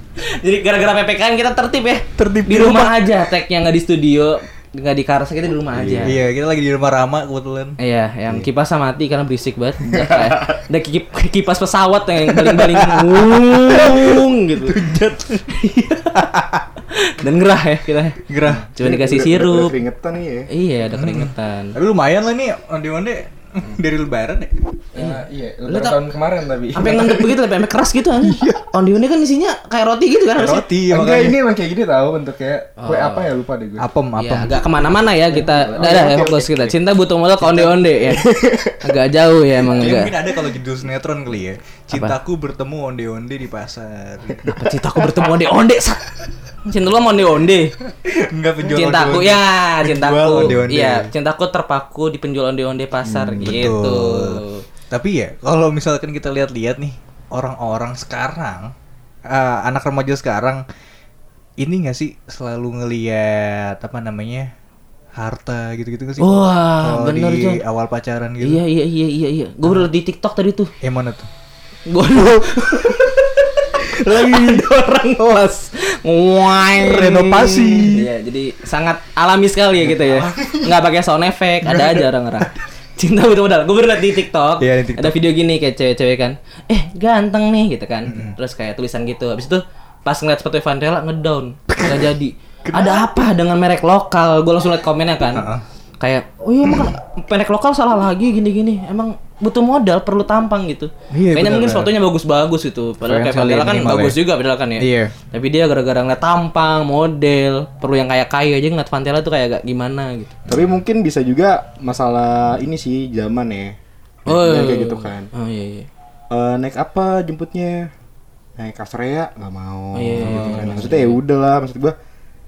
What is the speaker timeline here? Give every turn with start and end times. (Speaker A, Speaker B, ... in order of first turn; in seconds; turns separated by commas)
Speaker A: 0.3-6.1, Speaker B: 2.2-3.1, Speaker C: 5.7-6.2, Speaker B: 6.0-7.8, Speaker A: 7.8-14.8, Speaker C: 9.8-10.6, Speaker B: 12.2-15.6, Speaker A: 15.5-16.2, Speaker B: 16.1-16.6, Speaker A: 16.9-18.2, Speaker B: 18.3-18.7, Speaker C: 18.5-20.5, Speaker A: 18.7-19.7, Speaker A: 20.5-21.7, Speaker B: 20.9-24.7, Speaker C: 24.9-27.4, Speaker A: 24.9-26.0, Speaker A: 26.8-30.7, Speaker B: 28.2-28.5, Speaker B: 30.4-31.4, Speaker C: 30.9-33.9, Speaker A: 32.8-33.3, Speaker B: 33.8-34.9, Speaker A: 34.1-40.2, Speaker C: 35.3-36.7, Speaker B: 37.4-37.8, Speaker C: 38.0-38.9, Speaker B: 39.6-44.4, Speaker A: 44.4-47.7, Speaker B: 48.0-51.1, Speaker A: 48.6-54.6, Speaker C: 53.0-53.7, Speaker B: 53.4-58.7, Speaker B: 59.3-60.6, Speaker B: 61.6-64.5, Speaker B: 65.2-68.6, Speaker A: 66.2-67.6, Speaker A: 68.4-70.7, Speaker B: 69.6-69.9, Speaker B: 70.8-71.3, Speaker A: 71.9-110.3, Speaker B: 74.1-74.6, Speaker B: 76.5-78.1, Speaker B: 79.8-80.8, Speaker B: 81.6-82.6, Speaker B: 84.6-85.2, Speaker B: 88.1-88.3, Speaker B: 91.7-92.1, Speaker B: 92.7-93.1, Speaker B: 95.3-95.6, Speaker B: 96.7-96.9, Speaker B: 101.1-101.9, Speaker B: 103.0-104.2, Speaker B: 104.8-105.1, Speaker C: 110.5-115.3, Speaker A: 114.2-115.9, Speaker C: 116.3-117.9, Speaker C: 118.6-122.0, Speaker A: 119.9-121.2, Speaker B: 120.3-120.8